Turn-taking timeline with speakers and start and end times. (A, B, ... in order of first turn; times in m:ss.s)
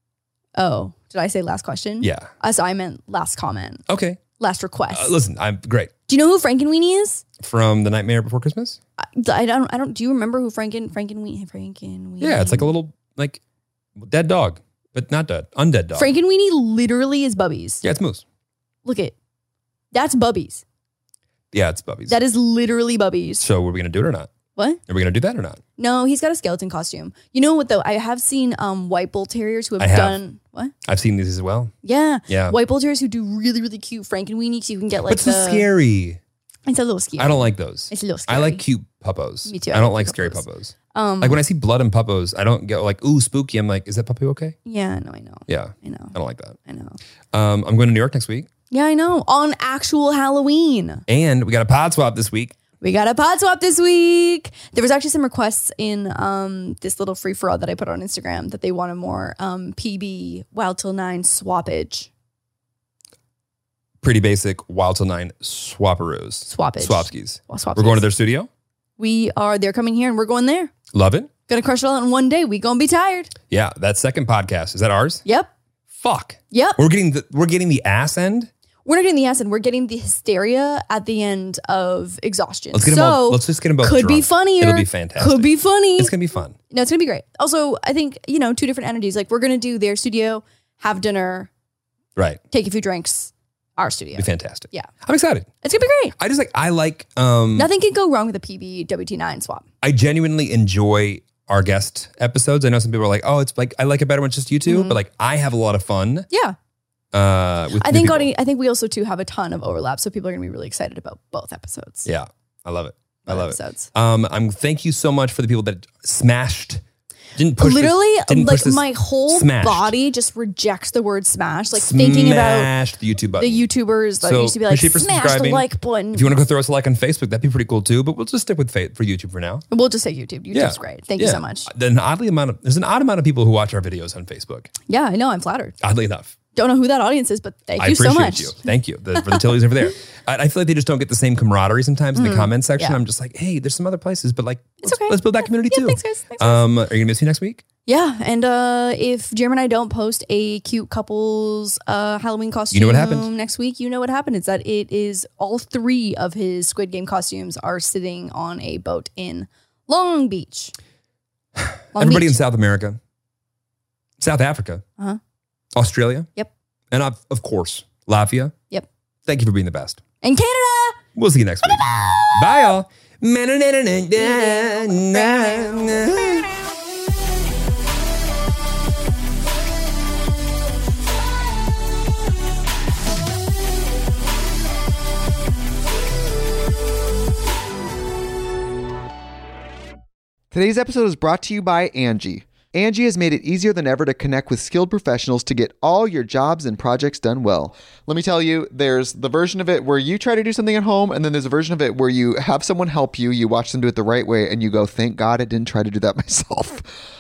0:00.6-0:03.8 A
0:02.0-0:02.3 B
0:03.9-0:04.2 B
0:04.4-0:05.2 A
0:04.9-0:05.9 B
0:06.1-0:07.2 A
0:07.4-0:08.8 B
0:09.0-0:12.7 A
0:12.2-0:13.4 B
0:14.0-0:16.1 B
0:16.0-0:17.8 A
0:17.8-0:18.2 B
0:18.8-0:19.2 A
0:19.9-0:20.6 A
0:21.5-0:22.2 B
0:22.1-0:23.5 A
0:23.4-0:24.3 B
0:24.6-0:24.8 A
0:24.9-0:25.6 B
0:25.8-0:30.7 A
0:29.8-0:30.2 B
0:30.8-0:31.7 B
0:31.8-0:35.7 A
0:32.3-0:32.6 B
0:35.1-0:36.2 B
0:36.7-0:38.6 A
0:37.2-0:44.6 B
0:39.5-0:41.4 A
0:44.6-0:47.0 A
0:45.5-0:46.6 B
0:47.3-0:48.5 B
0:48.7-0:51.0 A
0:51.1-0:52.6 B
0:52.8-1:02.1 A
1:04.0-1:08.5 B
1:06.5-1:08.0 A
1:09.0-1:10.7 A
1:10.9-1:11.3 B
1:11.5-1:13.3 A
1:13.5-1:15.2 B
1:15.3-1:15.5 A
1:16.0-1:18.5 B
1:16.5-1:16.8 A
1:18.9-1:26.1 A
1:22.7-1:26.6 B
1:26.7-1:31.5 A
1:32.2-1:32.4 B
1:32.5-1:34.9 A
1:34.2-1:35.5 B
1:35.6-1:36.2 A
1:36.2-1:37.7 B
1:37.6-1:39.7 A
1:39.8-1:46.3 B
1:44.7-1:45.0 A
1:46.3-1:46.6 A
1:47.1-1:48.3 B
1:47.8-1:52.1 A
1:52.0-1:56.8 B
1:53.3-1:53.9 A
1:57.4-1:59.9 B
1:57.6-2:02.7 A
2:01.7-2:03.7 B
2:03.4-2:06.3 A
2:04.2-2:09.6 B
2:09.7-2:11.7 A
2:10.5-2:14.7 B
2:14.9-2:15.8 A
2:15.8-2:16.4 B
2:16.5-2:18.6 A
2:17.8-2:27.6 B
2:19.2-2:19.5 A
2:22.2-2:23.0 A
2:24.8-2:26.6 A
2:27.9-2:40.7 A
2:32.7-2:33.3 B
2:41.6-2:43.0 B
2:41.9-2:42.4 A
2:44.2-2:44.8 B
2:45.8-2:46.3 B
2:46.9-2:48.6 B
2:49.3-2:50.0 B
2:50.2-2:51.0 A
2:51.2-2:56.5 B
2:54.2-2:56.1 A
3:10.5-3:26.9 C